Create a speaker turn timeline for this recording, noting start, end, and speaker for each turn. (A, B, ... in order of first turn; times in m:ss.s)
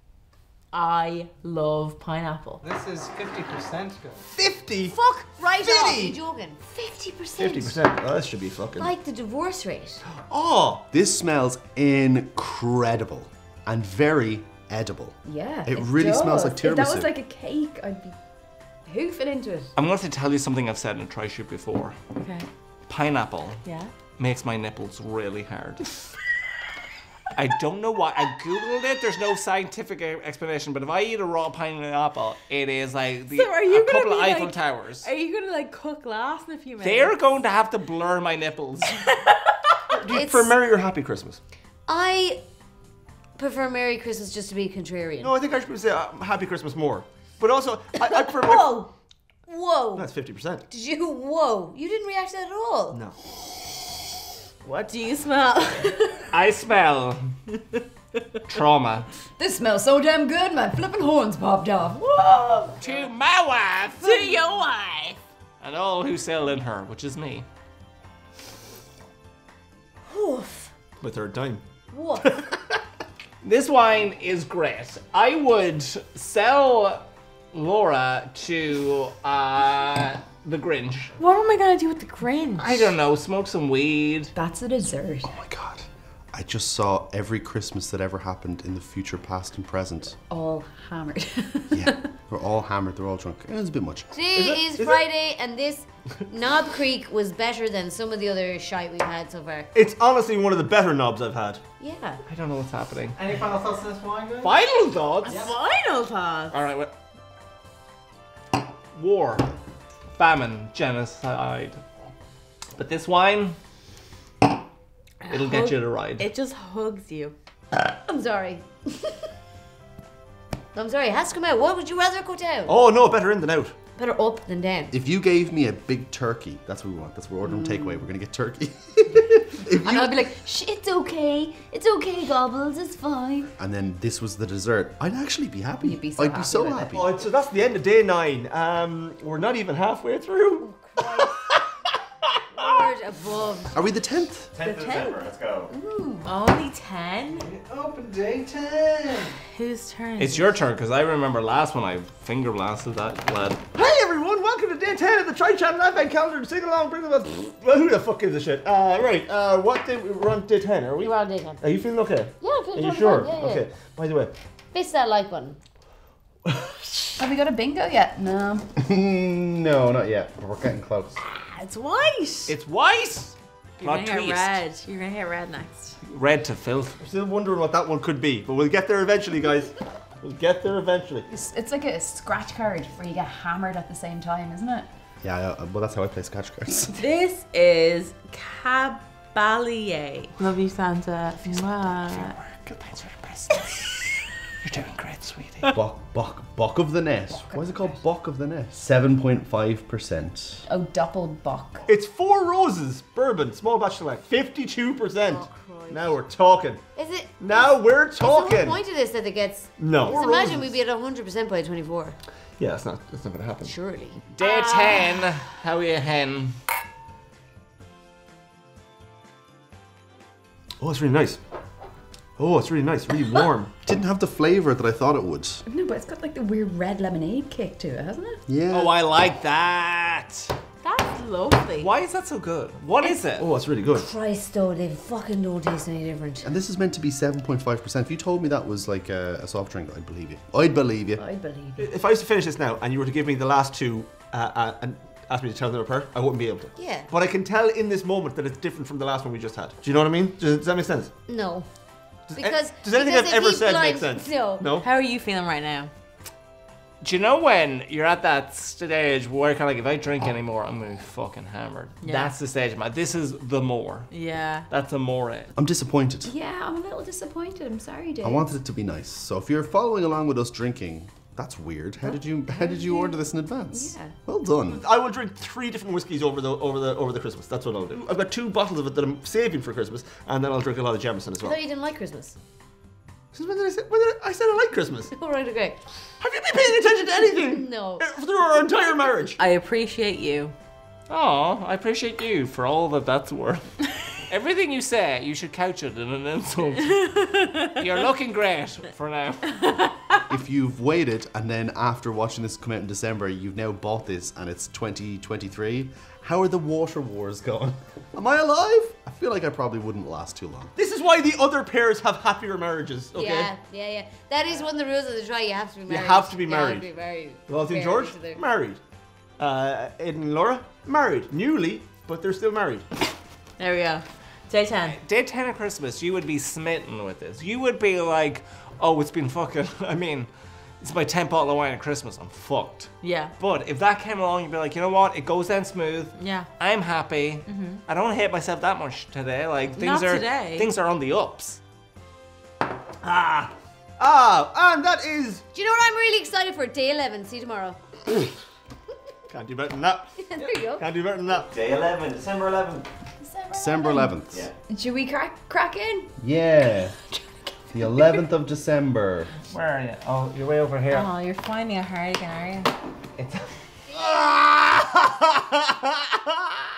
0:00.7-0:02.6 A
0:02.6-0:04.2 B
0:04.4-0:05.0 C
0:04.9-0:06.7 D
0:05.6-0:06.2 C
0:06.7-0:07.8 E
0:07.4-0:08.9 C
0:08.8-0:10.0 D
0:10.1-0:10.8 C
0:10.9-0:17.1 F
0:15.3-0:18.2 E
0:18.9-0:19.7 E
0:19.8-0:22.0 G
0:22.2-0:22.5 A
0:22.9-0:23.6 G
0:23.6-0:23.9 A
0:24.2-0:25.9 G
0:27.4-0:35.1 G
0:33.3-0:37.2 A
0:36.8-0:39.1 G
0:39.0-0:39.4 A
0:39.9-0:41.4 C
0:40.1-0:40.5 D
0:41.9-0:42.4 D
0:43.4-0:45.4 D
0:45.2-0:48.8 C
0:48.0-0:48.9 D
0:49.5-0:50.1 D
0:50.0-0:50.7 C
0:50.7-0:53.0 D
0:52.9-0:53.2 C
0:54.7-0:56.3 A
0:56.3-0:57.4 G
0:58.5-0:59.1 G
0:59.4-1:02.8 E
1:02.8-1:04.6 G
1:04.0-1:05.2 A
1:05.6-1:07.5 G
1:10.1-1:10.7 D
1:11.0-1:11.6 C
1:11.9-1:12.4 D
1:12.2-1:12.8 C
1:13.4-1:21.1 G
1:21.2-1:22.9 A
1:22.6-1:24.3 G
1:24.4-1:25.3 E
1:25.3-1:30.2 F
1:30.3-1:32.0 E
1:31.7-1:34.1 F
1:34.1-1:39.7 D
1:34.3-1:35.1 C
1:39.7-1:41.6 C
1:41.8-1:42.2 D
1:42.3-1:43.2 G
1:43.2-1:44.6 B
1:44.4-1:45.5 G
1:45.2-1:46.6 A
1:45.3-1:45.6 B
1:46.5-1:46.9 G
1:49.0-1:49.5 G
1:50.1-1:51.8 G
1:52.8-1:53.6 G
1:55.2-1:57.4 A
1:55.3-1:56.3 G
1:57.9-1:59.2 D
2:00.7-2:02.7 D
2:02.7-2:03.8 C
2:04.0-2:04.4 E
2:04.4-2:05.0 D
2:04.9-2:10.3 F
2:07.4-2:08.1 E
2:09.8-2:13.5 E
2:13.6-2:17.1 F
2:15.8-2:16.9 E
2:16.9-2:20.7 C
2:20.6-2:21.6 D
2:22.6-2:23.8 D
2:23.7-2:24.6 F
2:24.5-2:25.7 H
2:24.6-2:26.3 E
2:26.2-2:27.5 A
2:27.4-2:29.4 B
2:29.5-2:30.6 A
2:30.2-2:33.6 G
2:33.7-2:44.3 C
2:41.0-2:41.6 D
2:42.4-2:43.7 D
2:44.7-2:45.6 D
2:47.2-2:48.7 E
2:48.8-2:51.2 F
2:51.3-2:52.6 A
2:52.5-2:54.6 G
2:53.8-2:56.0 A
2:56.0-2:57.0 G
2:57.0-3:01.3 C
3:01.3-3:04.9 E
3:05.2-3:07.0 F
3:06.9-3:12.4 A
3:11.4-3:15.7 G
3:15.7-3:20.6 F
3:17.4-3:18.0 E
3:20.7-3:21.8 E
3:21.9-3:26.8 C
3:25.3-3:26.2 D
3:27.0-3:32.2 D
3:27.4-3:28.8 C
3:29.8-3:30.8 C
3:32.6-3:33.8 C
3:33.6-3:35.1 D
3:34.4-3:36.6 G
3:40.8-3:41.4 C
3:42.4-3:43.7 C
3:43.8-3:45.6 F
3:45.7-3:48.4 E
3:48.5-3:49.0 F
3:48.7-3:50.5 G
3:50.8-3:51.9 A
3:51.8-3:53.5 G
3:53.4-3:54.1 C
3:54.0-3:56.5 D
3:56.4-4:01.2 F
4:01.2-4:01.9 E
4:01.8-4:11.1 C
4:06.8-4:07.1 D
4:11.3-4:11.7 D
4:12.3-4:14.9 C
4:12.4-4:14.7 D
4:14.8-4:15.9 A
4:17.0-4:24.1 G
4:22.0-4:22.3 A
4:24.1-4:24.7 A
4:24.7-4:25.5 G
4:25.6-4:26.3 F
4:26.3-4:28.5 E
4:28.2-4:34.8 F
4:32.0-4:34.1 E
4:34.7-4:41.6 C
4:41.4-4:42.4 D
4:43.3-4:45.1 C
4:45.1-4:45.8 D
4:46.2-4:49.4 C
4:47.3-4:48.1 D
4:49.4-4:50.5 A
4:51.1-4:53.8 G
4:54.3-4:57.1 G
4:57.0-4:57.8 A
4:57.8-4:59.9 G
5:00.3-5:10.7 F
5:10.8-5:13.5 C
5:13.1-5:18.4 D
5:15.9-5:16.9 C
5:17.5-5:18.8 C
5:19.4-5:22.8 C
5:23.6-5:25.0 A
5:24.9-5:30.3 G
5:30.8-5:41.6 G
5:33.0-5:33.3 A
5:36.2-5:36.5 A
5:37.5-5:37.8 A
5:39.7-5:40.7 A
5:43.0-5:45.4 C
5:45.5-5:47.8 D
5:48.1-5:48.4 C
5:49.3-5:51.5 C
5:50.2-5:50.8 D
5:51.5-5:52.9 H
5:53.2-5:56.1 E
5:53.5-5:54.5 F
5:56.2-5:57.0 F
5:57.1-5:58.2 E
5:57.7-5:59.3 F
5:59.5-6:01.1 G
6:00.9-6:02.7 A
6:03.2-6:03.5 G
6:03.9-6:06.6 C